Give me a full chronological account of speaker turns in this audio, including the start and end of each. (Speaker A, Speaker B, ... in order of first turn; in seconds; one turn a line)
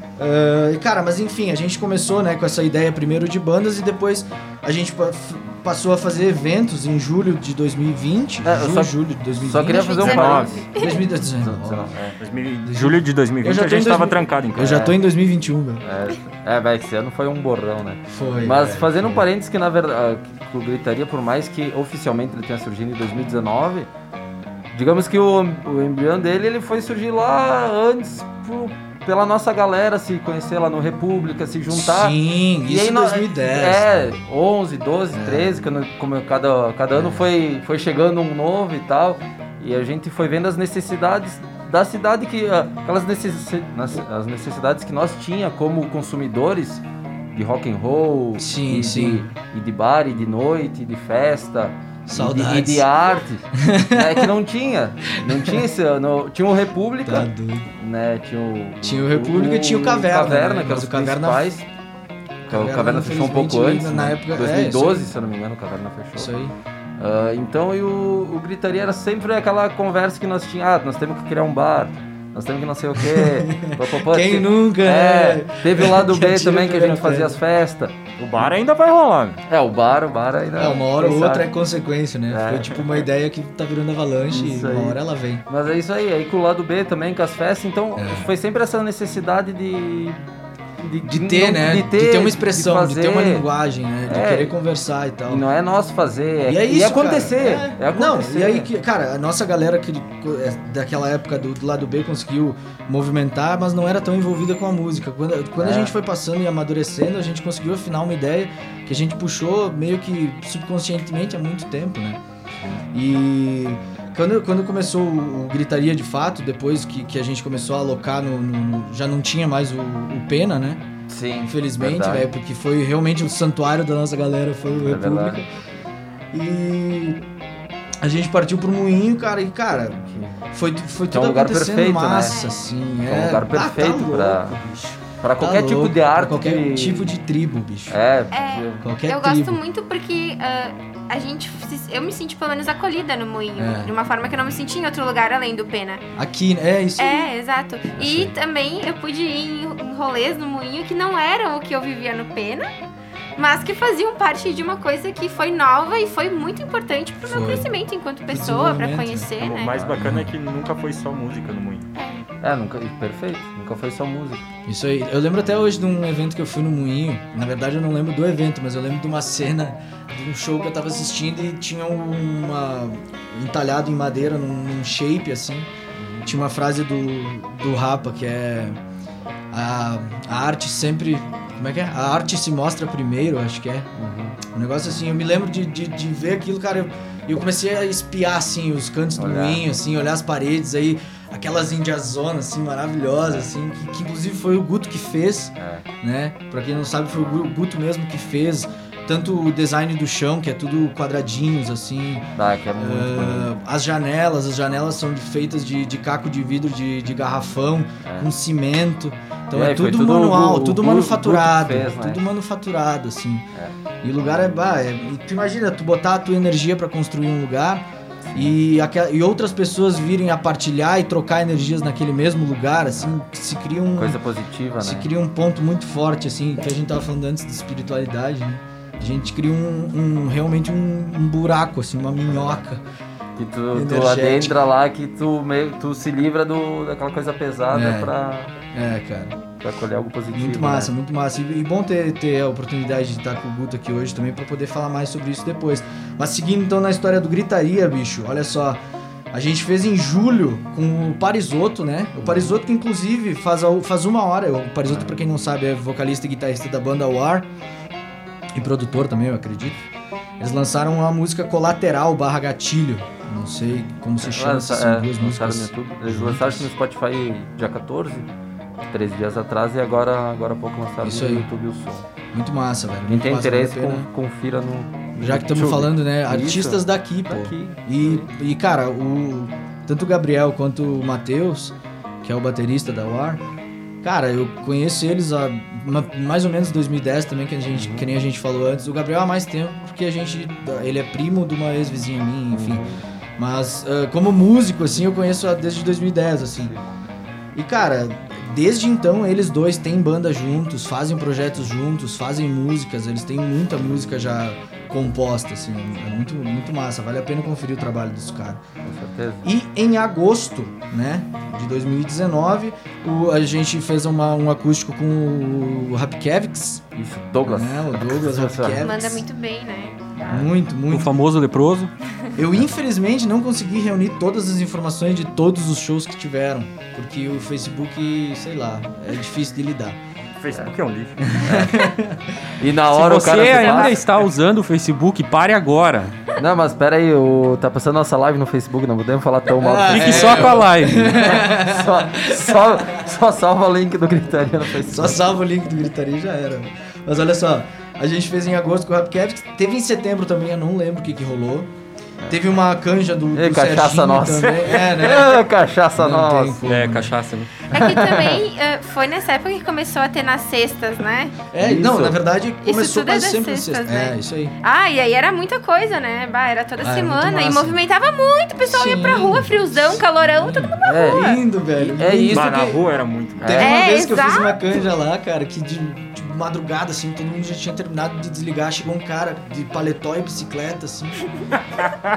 Speaker A: 0.2-11.9
Speaker B: 8.4-12.2
Speaker C: 9.7-11.1
Speaker D: 10.0-10.6
Speaker D: 12.2-14.9
Speaker A: 12.6-15.8
Speaker B: 14.6-14.9
Speaker B: 15.8-23.9
Speaker A: 18.1-19.3
Speaker B: 24.7-61.6
Speaker A: 31.7-33.9
Speaker A: 35.1-35.6
Speaker A: 36.9-37.3
Speaker A: 48.4-49.3
Speaker A: 52.1-52.9
Speaker A: 53.5-54.3
Speaker A: 55.2-55.6
Speaker A: 57.0-57.7
Speaker A: 58.8-61.5
Speaker A: 62.5-65.1
Speaker B: 62.5-66.3
Speaker A: 66.2-66.5
Speaker B: 67.0-77.9
Speaker A: 73.0-77.4
Speaker D: 78.2-79.4
Speaker B: 79.5-81.5
Speaker A: 80.5-85.4
Speaker B: 82.3-83.0
Speaker B: 84.3-90.2
Speaker A: 88.0-88.3
Speaker B: 90.8-93.5
Speaker A: 91.0-95.4
Speaker B: 94.0-94.5
Speaker B: 95.3-98.7
Speaker A: 96.4-112.2
Speaker B: 105.6-105.9
Speaker A: 112.9-120.8
Speaker B: 121.1-122.3
Speaker A: 121.4-125.5
Speaker B: 124.8-125.4
Speaker A: 126.3-127.2
Speaker A: 128.0-138.0
Speaker B: 130.0-130.4
Speaker B: 131.1-132.4
Speaker B: 133.1-134.6
Speaker B: 135.2-137.1
Speaker B: 137.9-138.9
Speaker C: 138.3-146.0
Speaker A: 138.8-139.6
Speaker A: 143.6-143.9
Speaker A: 146.2-147.3
Speaker C: 147.0-152.7
Speaker B: 148.0-148.3
Speaker C: 153.4-159.8
Speaker A: 157.2-157.7
Speaker A: 158.3-160.3
Speaker D: 159.4-161.9
Speaker C: 161.9-162.2
Speaker B: 162.4-164.4
Speaker A: 164.7-175.7
Speaker B: 175.9-176.4
Speaker A: 176.2-178.8
Speaker A: 179.5-183.9
Speaker B: 184.0-184.4
Speaker A: 184.4-213.5
Speaker B: 189.2-189.6
Speaker B: 195.6-195.8
Speaker B: 202.4-203.5
Speaker B: 208.0-208.3
Speaker B: 209.5-212.2
Speaker A: 214.0-224.2
Speaker B: 218.3-218.6
Speaker B: 223.9-225.1
Speaker A: 224.8-232.8
Speaker B: 232.3-232.6
Speaker B: 233.4-238.5
Speaker A: 233.7-234.6
Speaker A: 237.7-238.1
Speaker A: 238.7-239.4
Speaker B: 239.6-240.9
Speaker A: 240.3-248.8
Speaker A: 249.3-257.5
Speaker B: 252.2-252.5
Speaker A: 258.5-259.9
Speaker A: 260.4-266.7
Speaker B: 264.2-268.3
Speaker B: 268.9-272.1
Speaker A: 271.0-271.5
Speaker A: 272.3-274.1
Speaker B: 273.1-278.3
Speaker A: 275.2-283.4
Speaker A: 284.0-292.8
Speaker B: 287.7-288.1
Speaker B: 292.5-293.0
Speaker A: 293.4-296.7
Speaker B: 296.6-296.9
Speaker A: 297.5-308.6
Speaker B: 308.8-309.4
Speaker A: 309.4-316.9
Speaker B: 316.9-318.8
Speaker A: 317.4-319.2
Speaker C: 318.8-320.2
Speaker B: 320.2-320.5
Speaker A: 320.3-321.2
Speaker E: 320.9-321.9
Speaker A: 322.4-330.0
Speaker D: 330.4-331.4
Speaker A: 331.2-332.4
Speaker B: 331.4-331.8
Speaker B: 332.6-334.0
Speaker E: 332.9-336.1
Speaker C: 333.4-334.0
Speaker B: 336.4-345.2
Speaker A: 339.5-343.1
Speaker E: 339.9-341.2
Speaker A: 344.8-351.7
Speaker A: 352.3-357.1
Speaker B: 353.3-356.6
Speaker E: 356.6-357.5
Speaker C: 357.7-361.4
Speaker B: 357.7-358.4
Speaker A: 361.5-364.6
Speaker B: 361.6-362.2
Speaker C: 362.6-371.4
Speaker A: 366.8-367.8
Speaker A: 368.6-372.8
Speaker B: 370.8-372.6
Speaker D: 372.3-373.6
Speaker B: 373.4-373.8
Speaker A: 373.4-381.2
Speaker C: 373.6-374.6